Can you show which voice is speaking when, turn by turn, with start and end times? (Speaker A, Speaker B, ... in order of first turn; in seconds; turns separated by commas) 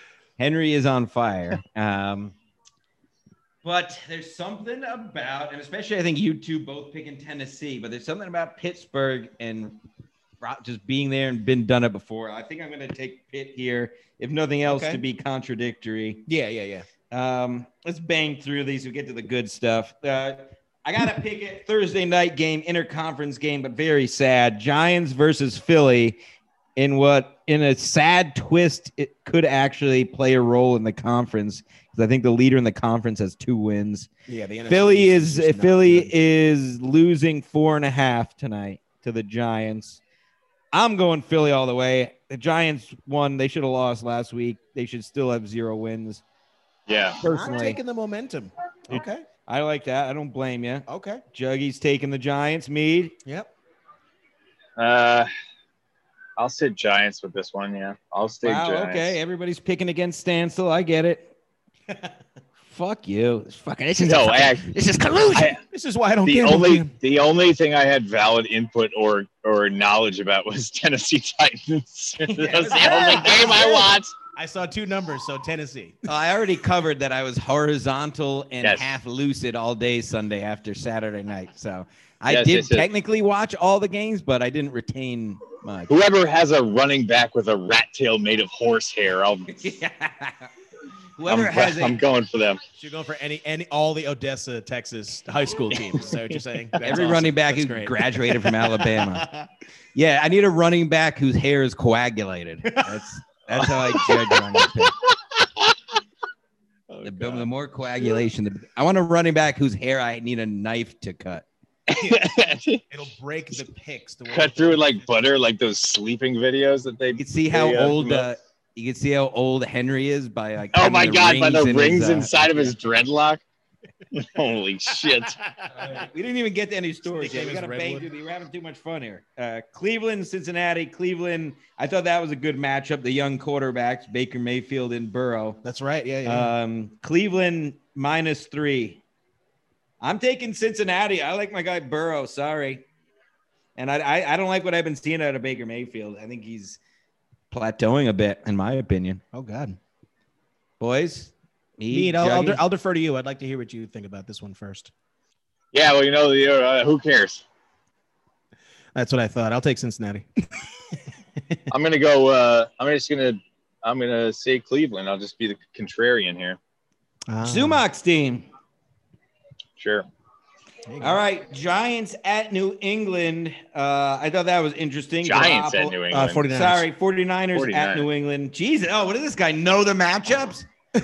Speaker A: 0.4-2.3, Speaker A: 3.6-9.8, Speaker A: 10.4-16.2, Speaker B: 14.6-15.0, Speaker B: 16.3-16.9, Speaker A: 17.1-26.2, Speaker A: 26.8-34.1, Speaker B: 34.3-36.1, Speaker A: 34.7-40.0, Speaker A: 40.7-46.2, Speaker C: 46.9-47.2, Speaker A: 47.2-47.8, Speaker B: 47.2-49.2, Speaker A: 48.9-53.1, Speaker B: 50.9-51.2, Speaker B: 53.2-53.5, Speaker C: 54.8-55.3, Speaker C: 56.4-59.1, Speaker A: 58.4-61.3, Speaker A: 62.7-65.6, Speaker C: 64.0-64.7, Speaker C: 65.3-65.6, Speaker B: 65.7-66.9, Speaker C: 66.2-74.1, Speaker B: 72.3-76.0, Speaker A: 72.4-73.6, Speaker A: 76.1-85.9, Speaker C: 82.3-82.9, Speaker C: 85.9-89.7, Speaker A: 89.5-90.5, Speaker A: 91.2-92.0, Speaker C: 91.3-92.6, Speaker B: 92.8-99.5, Speaker C: 95.7-96.1, Speaker A: 96.8-99.3, Speaker A: 99.9-105.0, Speaker C: 103.6-104.3, Speaker C: 105.4-105.7, Speaker C: 106.9-107.4, Speaker A: 107.0-111.5, Speaker C: 111.9-112.8, Speaker B: 112.9-115.0, Speaker C: 114.3-118.3, Speaker A: 117.2-122.7, Speaker C: 120.7-123.4, Speaker C: 124.1-125.4, Speaker A: 125.7-135.6, Speaker B: 127.1-128.1, Speaker B: 135.6-136.5, Speaker A: 136.2-139.0, Speaker A: 140.0-142.8, Speaker A: 143.8-146.8, Speaker A: 147.5-149.2, Speaker B: 149.3-149.8, Speaker A: 150.8-152.6, Speaker B: 151.9-154.9, Speaker C: 155.7-157.4, Speaker B: 158.9-160.3, Speaker C: 161.7-166.6, Speaker B: 167.3-167.8, Speaker A: 167.4-168.4, Speaker C: 169.8-170.1, Speaker B: 170.9-171.2, Speaker A: 171.0-180.7, Speaker C: 175.2-176.4, Speaker B: 176.1-176.8, Speaker C: 177.5-178.1